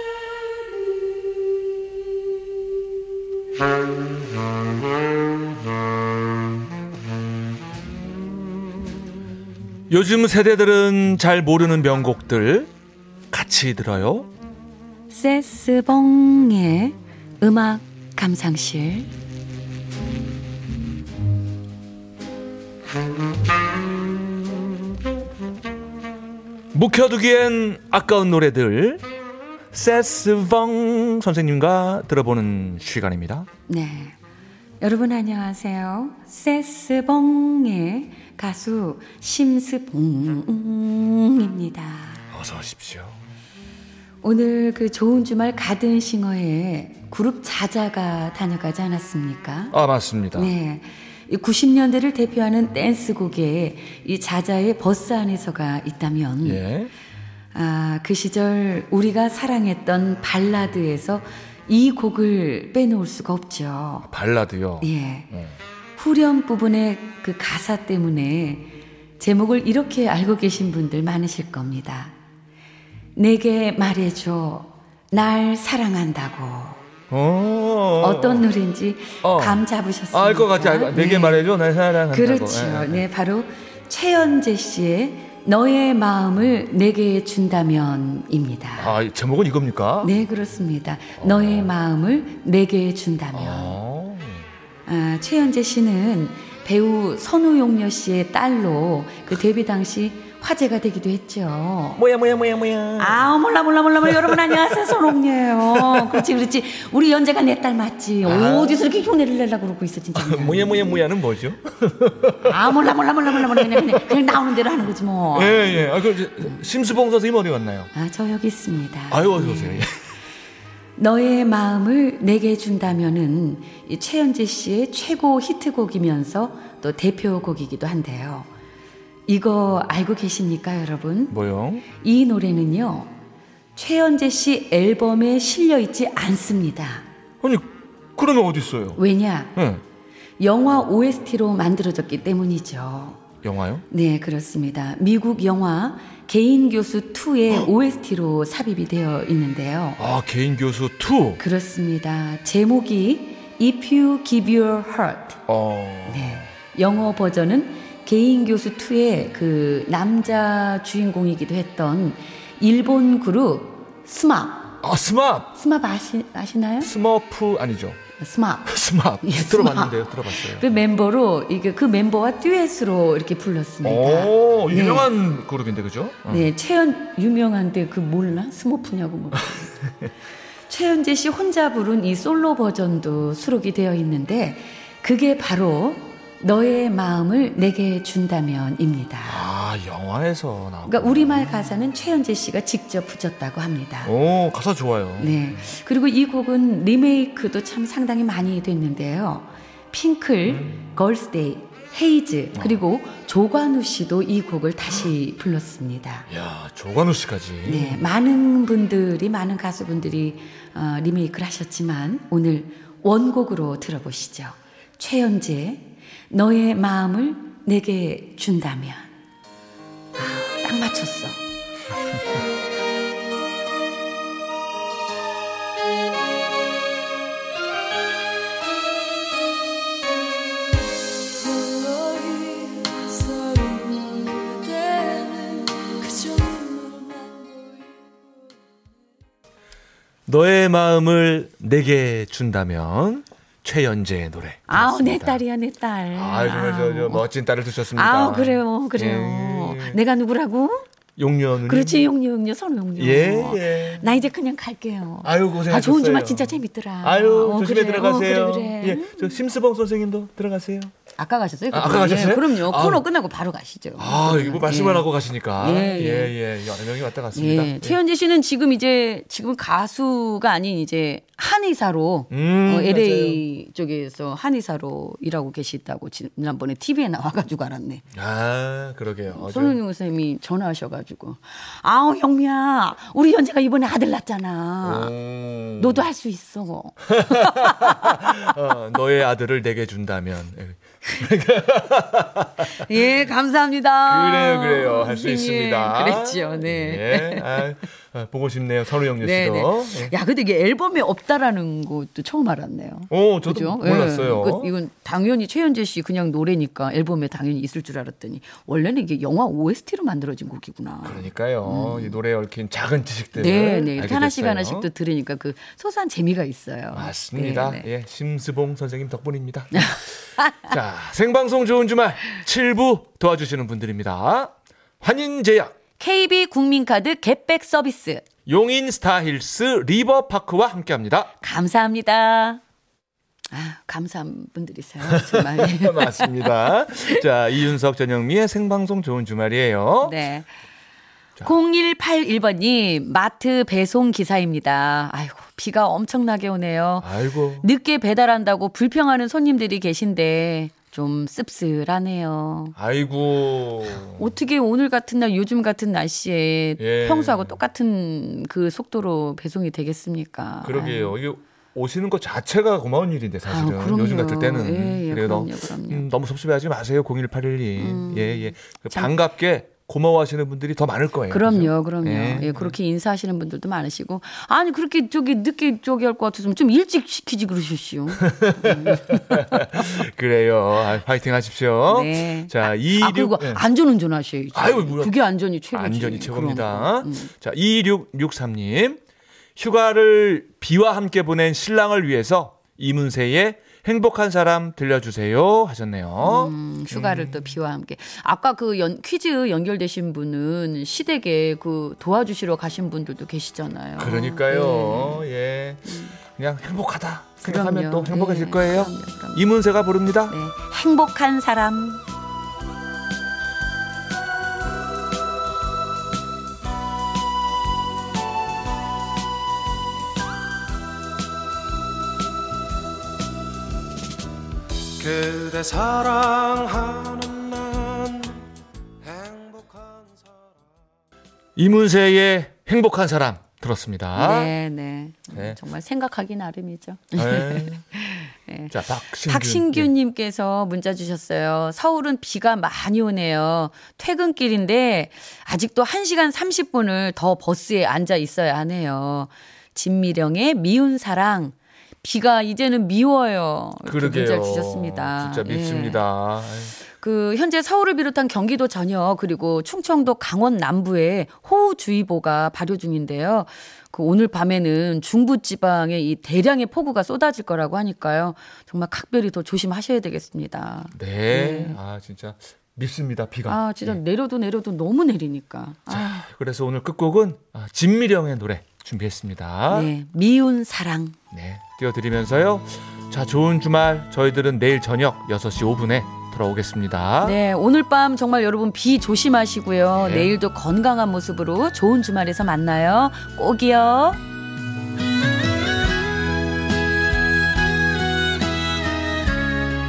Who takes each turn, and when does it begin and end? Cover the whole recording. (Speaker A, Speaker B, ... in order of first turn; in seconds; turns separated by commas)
Speaker A: 9.9-12.7, Speaker A: 13.3-14.3, Speaker B: 15.1-19.1, Speaker A: 26.7-29.0, Speaker A: 29.7-33.5, Speaker B: 33.7-34.2, Speaker B: 34.8-42.2, Speaker A: 42.3-43.2, Speaker B: 44.2-49.8, Speaker A: 49.7-50.5, Speaker B: 50.3-56.6, Speaker A: 56.4-56.9, Speaker B: 57.5-64.1, Speaker A: 64.1-65.5, Speaker B: 64.8-65.3, Speaker B: 66.0-72.1, Speaker B: 73.2-76.8, Speaker A: 77.1-78.4, Speaker B: 78.0-81.4, Speaker A: 79.2-83.0, Speaker B: 82.1-89.0, Speaker A: 88.8-90.1, Speaker B: 90.0-93.8, Speaker A: 91.2-91.7, Speaker A: 93.3-94.5, Speaker B: 94.8-102.0, Speaker A: 102.0-103.2, Speaker B: 103.0-111.0, Speaker A: 104.0-105.0, Speaker A: 105.6-106.3, Speaker A: 108.2-108.8, Speaker A: 110.1-114.2, Speaker B: 112.4-115.9, Speaker A: 115.3-117.9, Speaker B: 117.9-119.9, Speaker A: 119.1-119.9, Speaker B: 121.0-128.5, Speaker B: 129.3-131.4, Speaker A: 131.3-131.8, Speaker B: 131.9-133.1, Speaker B: 133.7-137.1, Speaker A: 137.4-139.0, Speaker B: 138.9-139.5, Speaker A: 139.6-139.8, Speaker B: 140.4-143.2, Speaker A: 143.4-143.8, Speaker B: 143.9-150.0, Speaker A: 150.0-151.4, Speaker B: 151.4-155.4, Speaker A: 155.5-156.5, Speaker B: 156.1-164.8, Speaker A: 164.8-165.5, Speaker B: 165.5-166.9, Speaker A: 166.8-168.0, Speaker B: 168.2-175.1, Speaker A: 168.7-170.7, Speaker A: 173.8-176.5, Speaker B: 176.3-179.8, Speaker B: 180.7-189.5, Speaker A: 189.2-191.5, Speaker B: 190.9-194.1, Speaker A: 194.0-195.4, Speaker B: 195.2-206.3, Speaker A: 200.4-200.9, Speaker A: 202.5-202.8, Speaker A: 206.3-208.0, Speaker B: 207.6-219.1, Speaker B: 220.1-221.4, Speaker B: 231.8-237.1, Speaker A: 240.3-245.4, Speaker B: 244.7-247.2, Speaker A: 246.1-250.0, Speaker B: 247.9-250.8, Speaker A: 251.2-252.1, Speaker B: 251.7-259.4, Speaker A: 252.9-254.1, Speaker A: 255.2-260.9, Speaker B: 261.2-266.4, Speaker A: 261.7-263.1, Speaker A: 264.0-268.0, Speaker B: 267.3-278.1, Speaker A: 272.3-273.4, Speaker A: 278.1-279.8, Speaker B: 279.3-285.1, Speaker A: 284.8-286.1, Speaker B: 285.8-288.5, Speaker A: 287.1-292.9, Speaker B: 292.8-297.7, Speaker A: 294.1-300.1, Speaker B: 299.2-312.2, Speaker A: 303.1-304.7, Speaker A: 311.0-314.9, Speaker B: 313.4-317.9, Speaker A: 316.9-320.0, Speaker B: 319.7-320.6, Speaker A: 320.6-325.7, Speaker B: 326.0-328.2, Speaker A: 328.5-331.3, Speaker B: 331.4-332.6, Speaker B: 333.5-337.2, Speaker A: 335.0-340.1, Speaker B: 340.0-340.5, Speaker B: 341.4-352.7, Speaker A: 347.0-347.7, Speaker A: 352.8-354.3, Speaker B: 354.1-361.2, Speaker A: 356.8-357.6, Speaker A: 360.6-372.7, Speaker B: 363.5-366.1, Speaker B: 367.8-369.1, Speaker B: 371.3-379.8, Speaker A: 378.1-383.6, Speaker B: 381.9-387.3, Speaker A: 384.5-385.1, Speaker A: 385.7-389.0, Speaker A: 389.6-397.5, Speaker B: 396.2-405.3, Speaker A: 404.0-410.3, Speaker B: 405.9-406.2, Speaker B: 407.4-409.5, Speaker B: 410.3-412.0, Speaker C: 425.1-427.9, Speaker C: 429.1-429.9, Speaker A: 431.6-434.5, Speaker B: 434.1-456.0, Speaker A: 435.3-435.6, Speaker A: 437.1-437.8, Speaker A: 438.7-439.9, Speaker A: 453.8-456.7, Speaker B: 456.8-471.8, Speaker A: 470.9-474.0, Speaker B: 473.5-476.3, Speaker A: 475.9-479.9, Speaker B: 479.7-481.2, Speaker A: 481.3-487.4, Speaker B: 487.2-494.2, Speaker A: 489.9-490.3